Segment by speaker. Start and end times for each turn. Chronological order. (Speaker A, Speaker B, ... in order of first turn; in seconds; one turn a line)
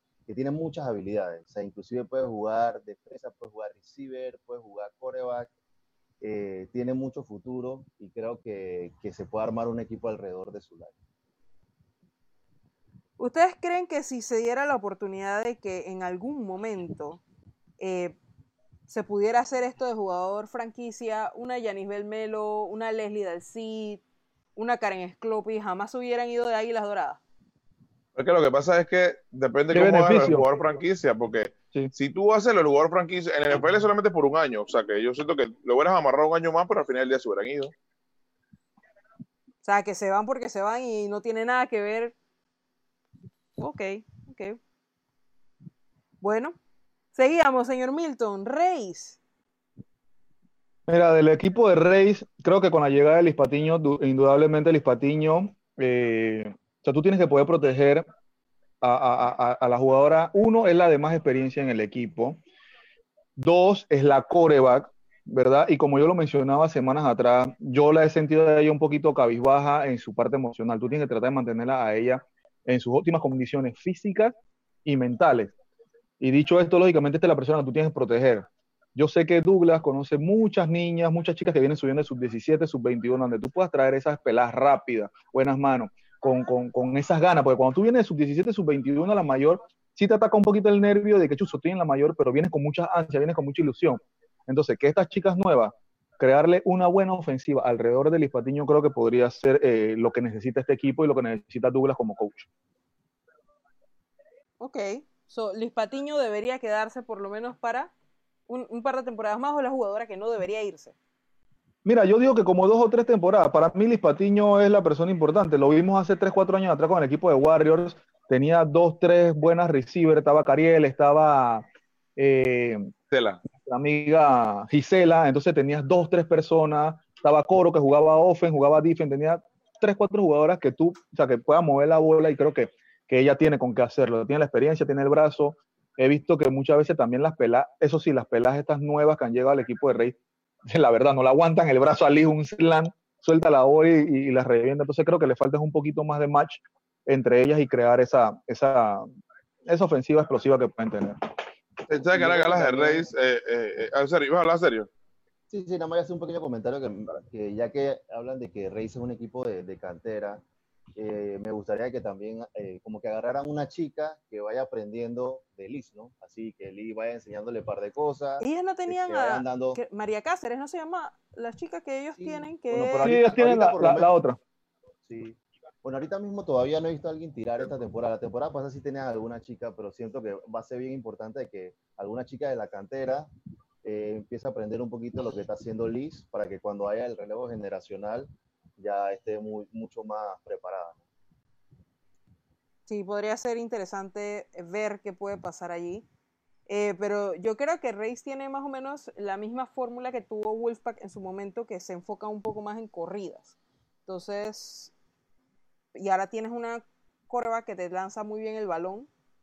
Speaker A: 0.3-5.5
Speaker A: 6.2-10.9
Speaker B: 13.2-17.2
Speaker B: 17.8-18.2
Speaker B: 18.9-24.0
Speaker B: 24.6-27.2
Speaker C: 28.1-37.7
Speaker D: 29.7-30.5
Speaker B: 39.6-42.1
Speaker B: 43.6-44.6
Speaker B: 46.2-46.5
Speaker B: 47.1-49.2
Speaker D: 50.9-58.0
Speaker D: 58.8-62.4
Speaker D: 63.4-74.3
Speaker D: 74.8-75.5
Speaker D: 76.2-102.5
Speaker B: 104.6-107.9
Speaker B: 108.5-110.9
Speaker D: 111.8-121.6
Speaker D: 122.2-122.9
Speaker C: 123.1-123.4
Speaker D: 123.6-140.1
Speaker D: 140.7-149.0
Speaker D: 149.7-151.2
Speaker C: 151.9-154.9
Speaker A: 152.1-153.1
Speaker A: 155.5-160.4
Speaker A: 160.9-169.8
Speaker B: 168.4-173.1
Speaker A: 172.1-174.1
Speaker D: 173.0-174.4
Speaker A: 175.1-183.3
Speaker A: 183.8-191.0
Speaker B: 192.9-196.0
Speaker B: 196.7-203.5
Speaker B: 204.1-204.9
Speaker B: 205.9-209.1